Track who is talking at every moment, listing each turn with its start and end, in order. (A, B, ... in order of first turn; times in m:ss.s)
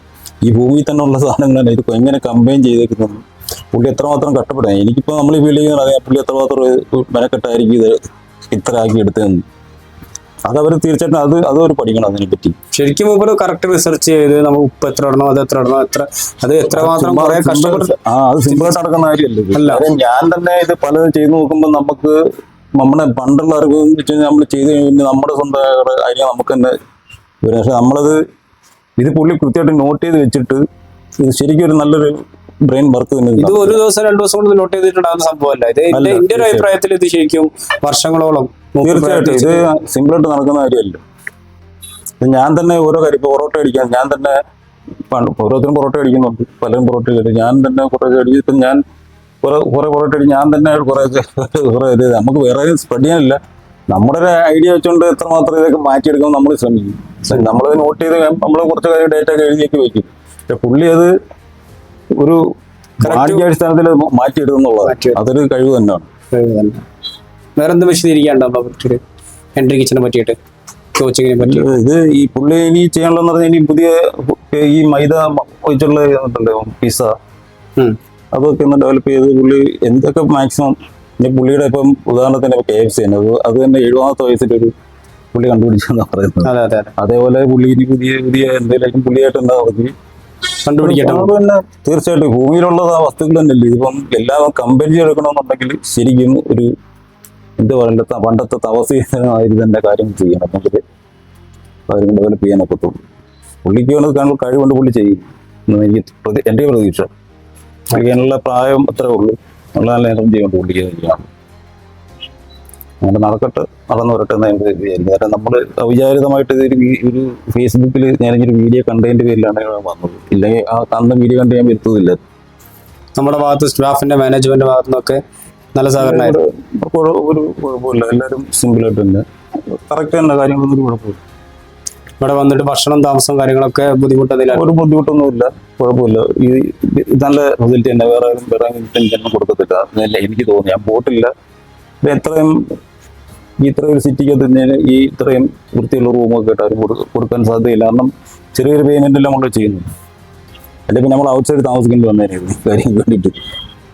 0:00.4-0:08.0 A
0:08.5-0:09.4 A
0:10.4-0:12.5 A
0:12.7-0:17.9 B
0:16.6-0:22.2 A
0:18.5-0:18.8 B
0:19.5-0:19.8 B
0:22.8-0:26.7 A
0:27.4-0:28.2 A
0:29.0-0:30.6 A
0:31.2-0:33.8 A
0:33.4-0:39.6 B
0:35.9-0:36.7 A
0:38.8-0:41.0 A
0:42.2-0:44.4 A
0:45.1-0:48.8 A
0:49.4-0:53.4 A
0:53.9-1:01.1 A
1:03.0-1:03.5 B
1:03.0-1:06.1 A
1:04.8-1:05.2 B
1:06.3-1:06.8 B
1:07.6-1:09.0 B
1:09.6-1:10.4 B
1:11.0-1:11.6 B
1:11.4-1:17.1 A
1:18.3-1:24.7 A
1:25.3-1:29.9 A
1:26.4-1:26.9 B
1:30.6-1:31.3 B
1:30.8-1:36.7 A
1:37.6-1:40.8 A
1:41.9-1:43.0 A
1:43.6-1:47.1 A
1:47.9-1:51.2 A
1:53.0-2:02.2 A
2:03.2-2:05.2 B
2:05.7-2:06.4 B
2:06.0-2:11.2 A
2:12.2-2:14.7 B
2:14.5-2:21.3 A
2:22.0-2:22.6 A
2:23.6-2:29.8 A
2:30.9-2:33.4 A